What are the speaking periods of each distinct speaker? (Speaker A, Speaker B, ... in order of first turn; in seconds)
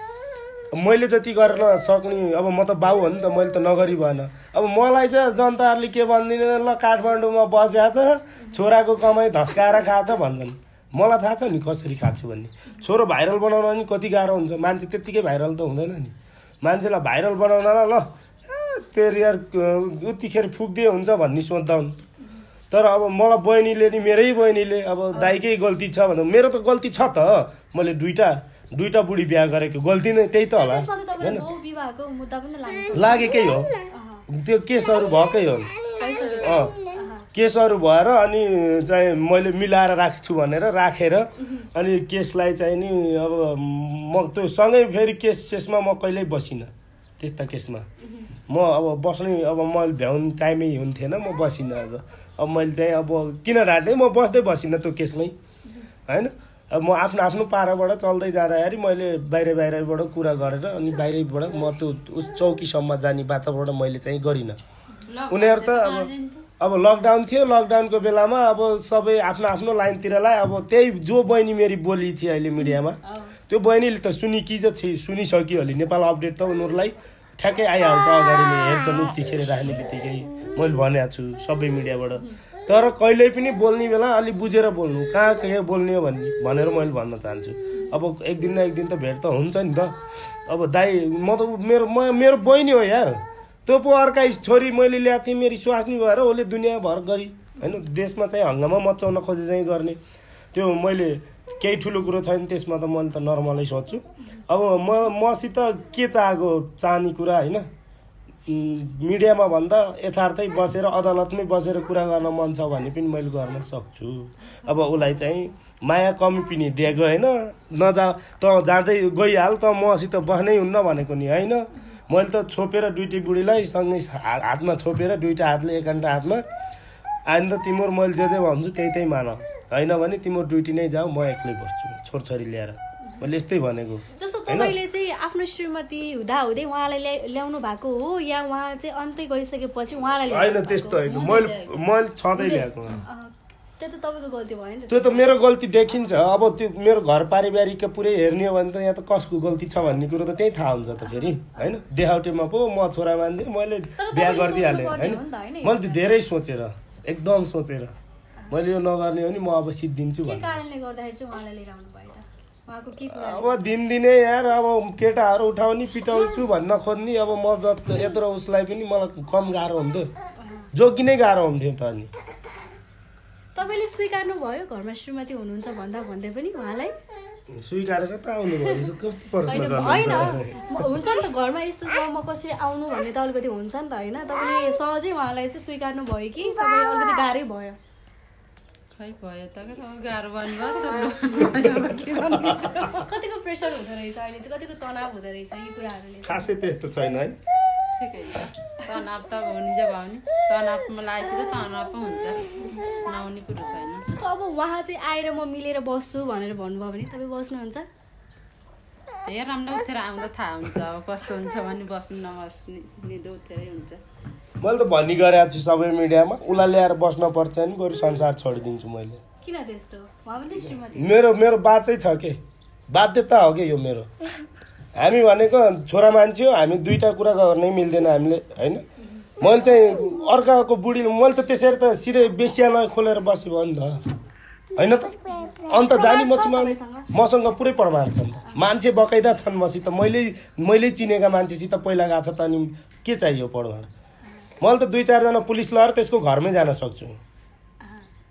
Speaker A: 0.7-21.9, 22.7-31.5, 32.9-33.7, 34.3-35.7, 36.4-36.8, 37.3-47.9, 48.5-55.3, 56.1-64.6, 65.3-100.0, 100.5-107.7, 108.5-126.4, 127.3-134.7, 140.3-143.1, 144.9-157.9, 158.5-160.6, 163.0-170.1, 170.7-172.1, 177.5-181.0, 196.2-197.3, 214.6-219.2, 220.6-222.4, 222.9-224.1, 225.0-228.8, 229.4-234.0, 234.7-243.9, 244.6-247.2
Speaker B: 25.1-25.4, 30.6-34.2, 36.0-37.2, 48.0-48.3, 72.6-73.3, 134.1-141.7, 142.3-145.3, 151.1-151.7, 154.0-156.2, 160.2-163.7, 166.1-166.4, 170.4-170.7, 173.5-176.9, 179.5-187.8, 192.8-196.6, 204.1-207.8, 219.4-221.2, 229.0-229.3, 235.5-237.1
Speaker C: 65.1-66.5, 188.9-193.0, 198.0-204.1, 209.2-214.0